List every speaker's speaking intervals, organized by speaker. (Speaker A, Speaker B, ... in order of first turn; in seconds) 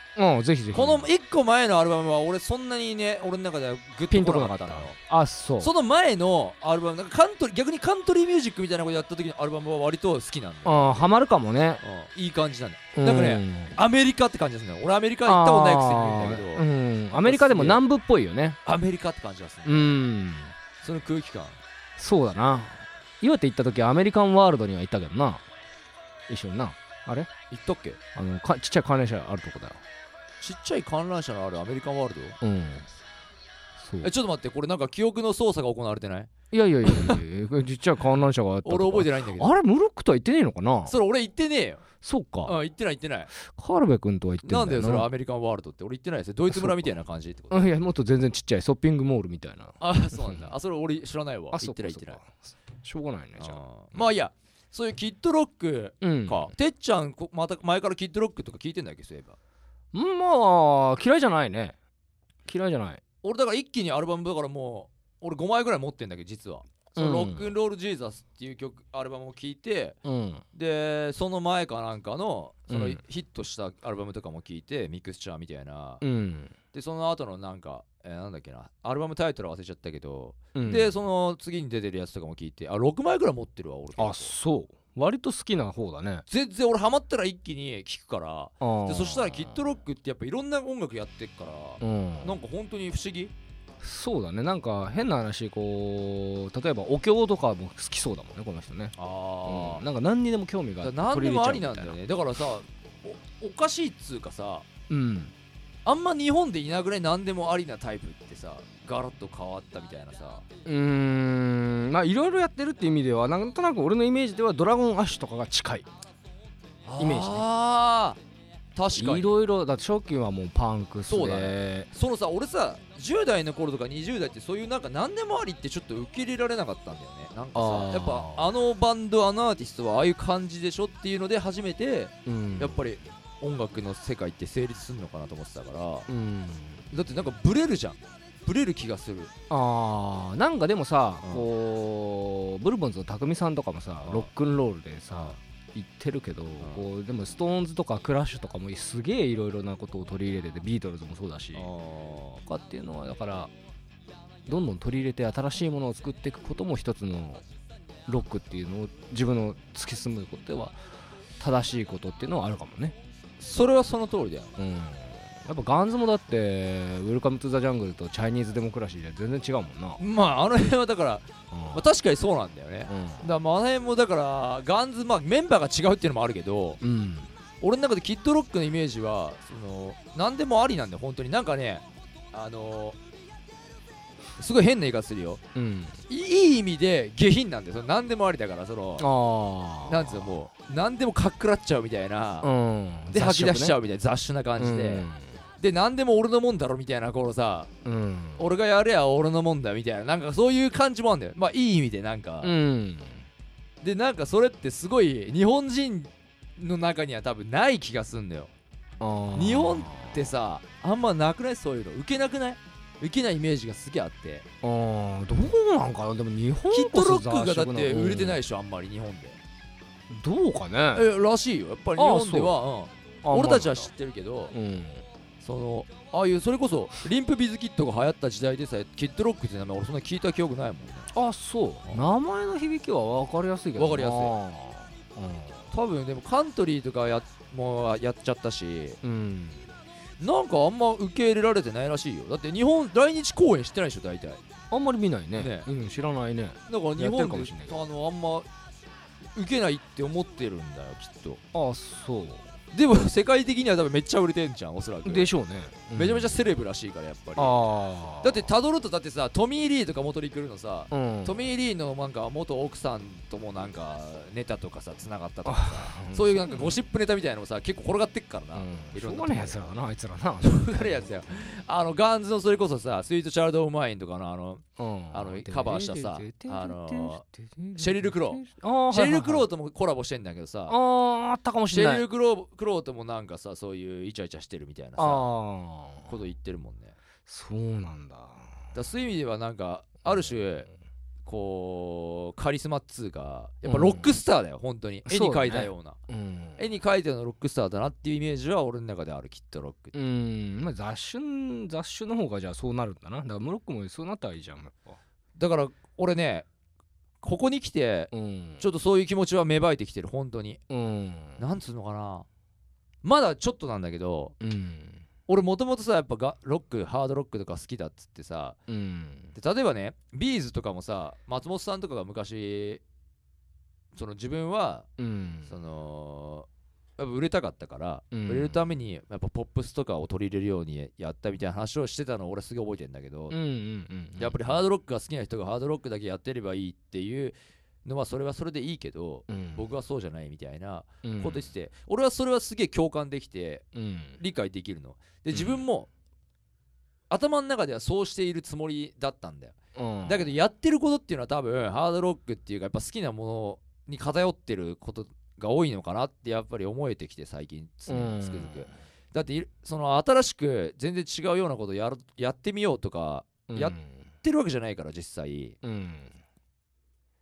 Speaker A: 0.2-1.1, 4.1-5.7, 10.7-11.8, 12.9-13.8, 15.3-18.6, 19.7-20.6, 22.0-25.4, 26.3-27.3, 28.1-29.8, 32.4-32.9, 33.8-34.1, 36.5-40.9, 42.0-42.5, 43.3-45.1, 46.5-46.9, 47.5-50.5, 51.5-54.1, 56.0-56.5, 59.9-61.8, 62.5-63.0, 67.0-67.5, 70.0-70.4, 72.7-73.0, 76.0-76.5, 80.5-80.9, 84.0-86.2, 88.6-89.6, 91.8-92.4, 93.8-102.0, 104.9-105.3, 110.7-115.9, 117.0-117.5, 119.0-121.9, 127.5-128.5, 132.3-132.8, 136.1-137.0, 139.5-151.7, 152.5-153.5, 154.5-157.4, 158.1-160.8, 161.4-163.0, 164.6-170.0, 171.5-171.9, 172.9-173.3, 176.8-177.3, 185.6-186.0, 189.0-190.4, 192.4-193.8, 194.6-195.4, 197.8-198.5, 202.4-203.3, 209.0-210.3, 214.6-218.4, 220.1-221.1, 222.0-222.6, 223.2-223.9, 224.5-225.1, 231.1-235.7, 239.0-239.7, 244.7-247.8, 251.5-252.5, 255.0-256.4, 257.4-258.5, 260.9-261.5, 265.4-266.8, 268.5-271.2, 274.8-279.5, 280.7-282.1, 285.0-286.1, 287.3-288.5, 290.1-290.3, 293.7-294.1, 295.1-296.6, 299.9-305.0, 308.1-308.6, 310.7-311.4, 314.4-315.1, 318.7-319.3, 325.0-325.5, 328.1-328.6, 333.3-334.6, 339.3-339.6, 341.0-341.5, 343.7-344.2, 345.3-345.6, 349.8-350.3, 357.9-358.7, 363.5-364.1, 365.6-366.1
Speaker B: 0.7-5.0, 5.6-11.0, 11.8-17.8, 18.6-19.9, 20.8-21.6, 27.5-28.0, 30.4-32.4, 34.0-36.3, 36.8-37.2, 38.6-39.6, 40.9-41.9, 42.4-43.3, 44.4-47.7, 49.8-52.2, 53.4-59.4, 63.2-70.0, 70.5-76.0, 76.7-84.3, 86.3-93.3, 99.0-99.8, 100.8-104.7, 105.8-110.5, 116.8-118.2, 118.8-119.3, 121.1-136.1, 136.9-139.3, 144.0-144.3, 151.6-152.4, 163.4-164.6, 170.0-176.8, 177.6-183.0, 184.4-185.4, 186.1-189.1, 189.9-192.5, 193.1-195.1, 195.6-197.7, 198.4-202.5, 203.8-208.5, 209.3-214.5, 216.7-219.4, 220.9-224.5, 225.4-231.1, 233.8-234.3, 235.7-239.0, 240.2-244.4, 245.4-245.7, 246.7-248.5, 249.4-251.4, 252.7-255.3, 255.9-257.6, 258.2-269.7, 270.4-277.2, 277.8-280.8, 281.7-285.3, 286.1-287.0, 288.7-290.7, 291.2-296.0, 296.6-299.9, 305.4-306.5, 307.2-310.6, 311.4-312.3, 313.0-314.4, 315.3-318.6, 319.4-322.8, 323.9-324.9, 325.5-326.5, 327.0-333.4, 334.2-343.6, 344.2-345.9, 347.1-365.6